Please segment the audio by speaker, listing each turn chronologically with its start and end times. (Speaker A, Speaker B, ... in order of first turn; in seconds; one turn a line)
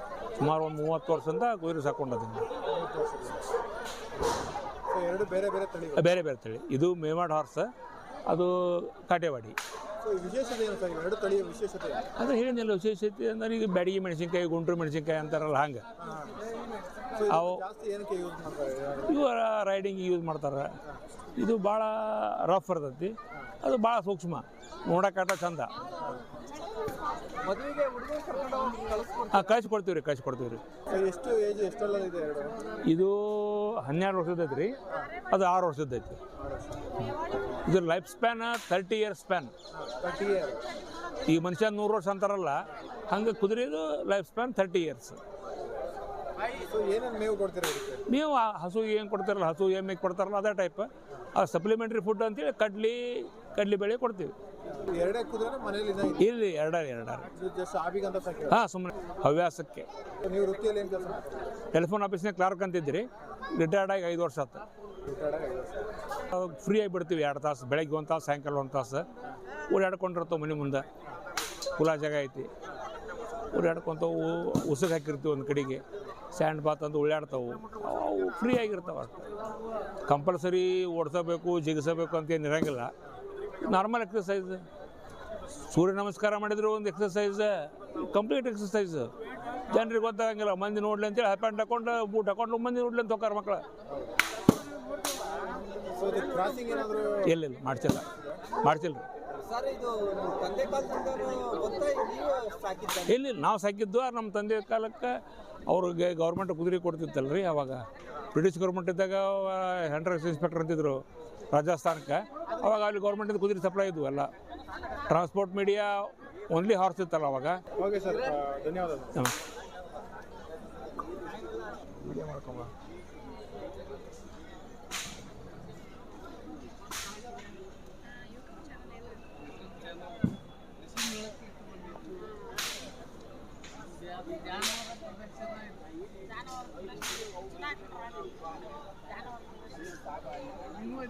Speaker A: 0.4-2.5
Speaker B: 2.6-3.4
Speaker B: 4.9-6.2
Speaker A: 6.0-7.7
Speaker A: 8.2-9.6
Speaker B: 10.0-12.0
Speaker A: 12.2-15.8
Speaker B: 16.0-16.4
Speaker B: 17.1-19.2
Speaker A: 17.3-17.6
Speaker A: 19.1-20.7
Speaker A: 21.4-25.7
Speaker C: 27.4-29.2
Speaker A: 29.3-30.6
Speaker B: 30.9-32.6
Speaker A: 32.9-34.7
Speaker A: 35.3-36.2
Speaker B: 36.4-36.8
Speaker A: 37.6-39.5
Speaker B: 39.7-40.6
Speaker A: 41.2-42.5
Speaker A: 43.1-45.2
Speaker B: 46.5-48.0
Speaker A: 48.1-54.3
Speaker B: 54.7-56.2
Speaker A: 56.2-57.3
Speaker B: 57.3-58.6
Speaker A: 58.5-59.9
Speaker B: 60.2-61.5
Speaker A: 61.7-64.6
Speaker B: 65.0-65.9
Speaker A: 66.3-69.0
Speaker A: 69.7-70.8
Speaker A: 71.8-72.5
Speaker A: 73.5-75.8
Speaker A: 76.3-79.2
Speaker A: 80.0-82.9
Speaker A: 83.6-84.6
Speaker A: 85.7-89.1
Speaker A: 89.7-93.6
Speaker B: 95.9-97.3
Speaker A: 97.2-98.0
Speaker A: 98.6-99.0
Speaker C: 99.4-103.0
Speaker A: 103.0-107.8
Speaker A: 108.3-111.0
Speaker A: 111.5-114.3
Speaker A: 115.1-117.6
Speaker B: 117.8-119.2
Speaker B: 122.1-122.7